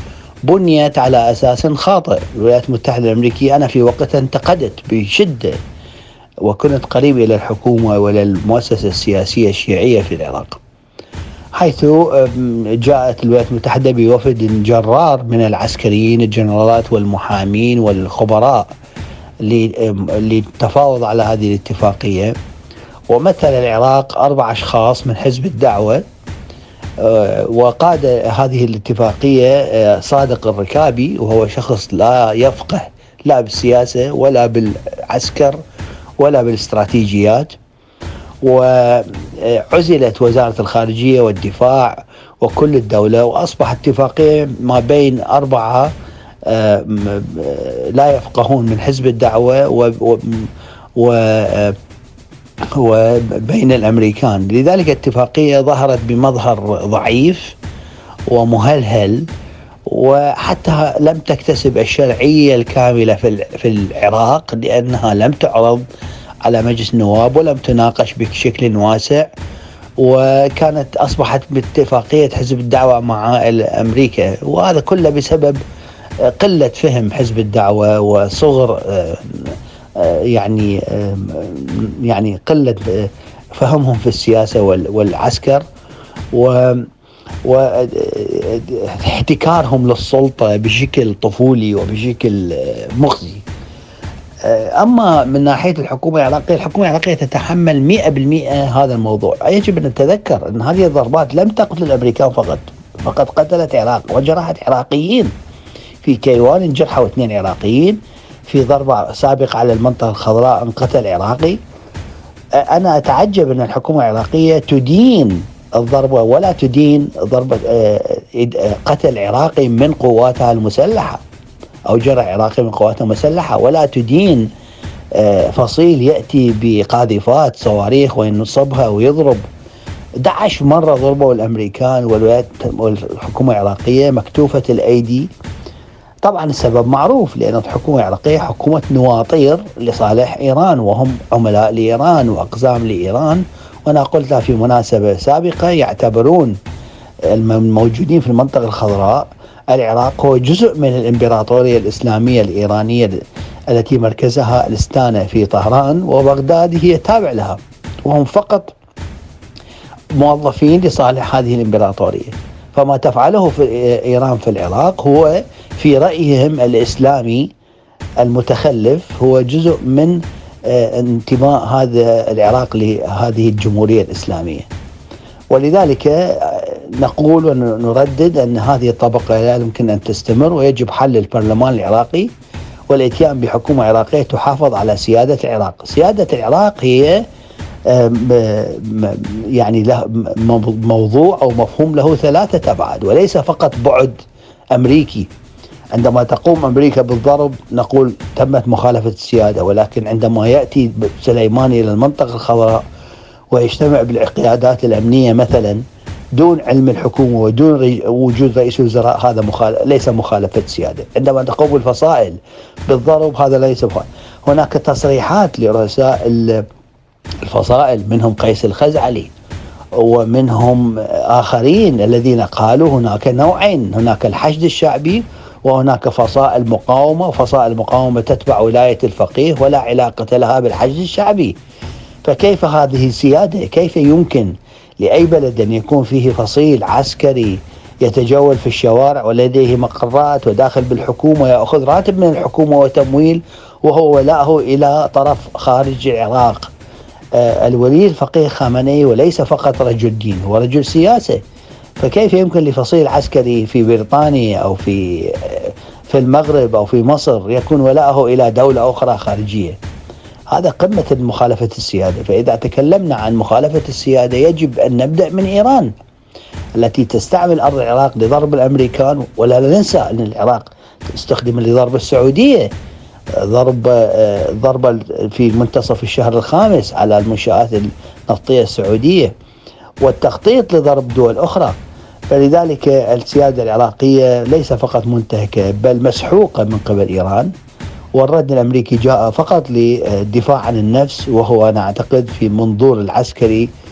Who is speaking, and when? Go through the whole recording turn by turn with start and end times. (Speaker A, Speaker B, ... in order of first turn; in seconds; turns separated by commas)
Speaker A: 0.4-5.6, Speaker A: 6.4-10.6, Speaker A: 11.5-18.7, Speaker A: 19.4-22.3, Speaker A: 23.1-26.0, Speaker A: 27.0-35.6, Speaker A: 36.2-37.5, Speaker A: 38.4-45.9, Speaker A: 46.5-51.8, Speaker A: 52.7-57.5, Speaker A: 58.3-59.2, Speaker A: 59.9-65.8, Speaker A: 66.4-69.3, Speaker A: 70.0-75.6, Speaker A: 76.2-85.6, Speaker A: 86.3-86.9, Speaker A: 87.4-93.4, Speaker A: 94.4-105.3, Speaker A: 106.0-111.6, Speaker A: 112.6-121.2, Speaker A: 121.9-124.5, Speaker A: 125.2-129.4, Speaker A: 130.2-135.3, Speaker A: 136.2-146.5, Speaker A: 147.3-153.2, Speaker A: 153.7-158.7, Speaker A: 160.2-167.5, Speaker A: 168.2-174.7, Speaker A: 175.5-182.3, Speaker A: 182.9-187.2, Speaker A: 187.9-194.2, Speaker A: 194.7-195.3, Speaker A: 195.9-202.8, Speaker A: 203.5-205.8, Speaker A: 206.3-216.6, Speaker A: 217.4-219.3, Speaker A: 220.0-231.6, Speaker A: 232.2-246.7, Speaker A: 247.3-251.4, Speaker A: 252.0-259.8, Speaker A: 260.5-265.9, Speaker A: 266.8-272.7, Speaker A: 273.4-279.3, Speaker A: 280.0-281.8, Speaker A: 282.3-287.5, Speaker A: 288.1-293.7